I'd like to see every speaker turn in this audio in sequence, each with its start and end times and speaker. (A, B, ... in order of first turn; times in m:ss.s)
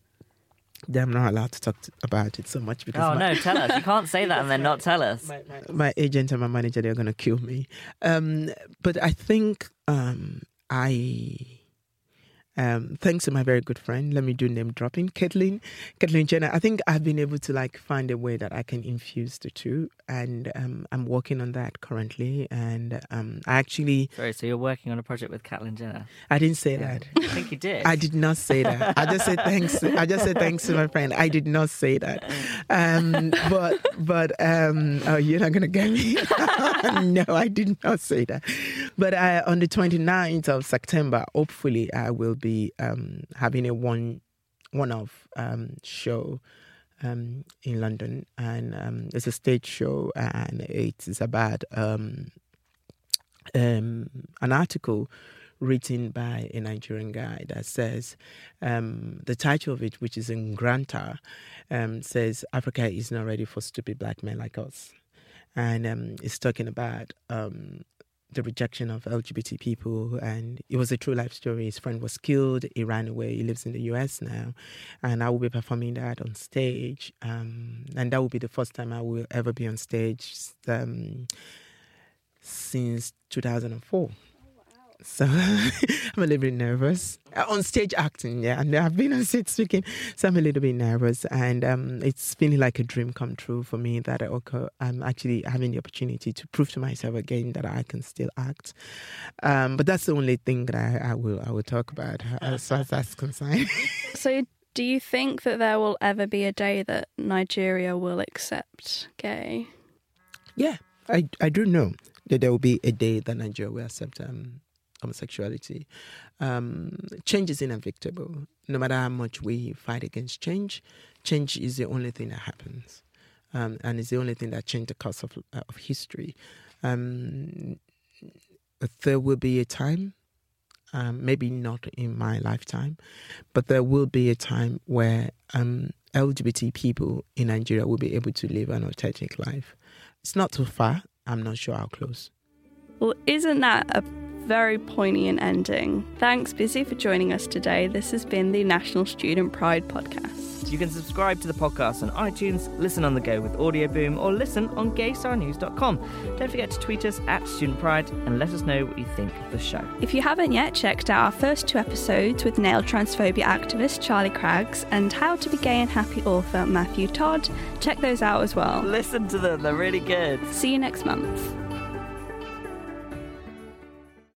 0:00.9-0:11.6 A
0:02.9-0:05.3 B
0:12.6-0:24.1 A
0:24.2-0:26.1 B
0:26.3-0:27.2 A
0:26.8-0:28.0 B
0:27.8-0:46.4 A
0:28.6-0:29.9 B
0:47.0-0:52.3 A
0:53.5-1:04.9 A
1:05.5-1:21.3 A
1:22.4-1:24.2 A
1:25.0-1:38.8 A
1:39.4-1:44.1 A
1:44.1-1:49.7 C
1:50.5-1:55.9 A
1:56.4-2:07.8 A
2:08.8-2:10.1 A
2:10.9-2:13.0 A
2:13.5-2:22.3 A
2:23.0-2:30.6 C
2:30.7-2:39.9 B
2:40.0-2:48.9 C
2:48.8-2:50.6 B
2:50.5-2:51.5 C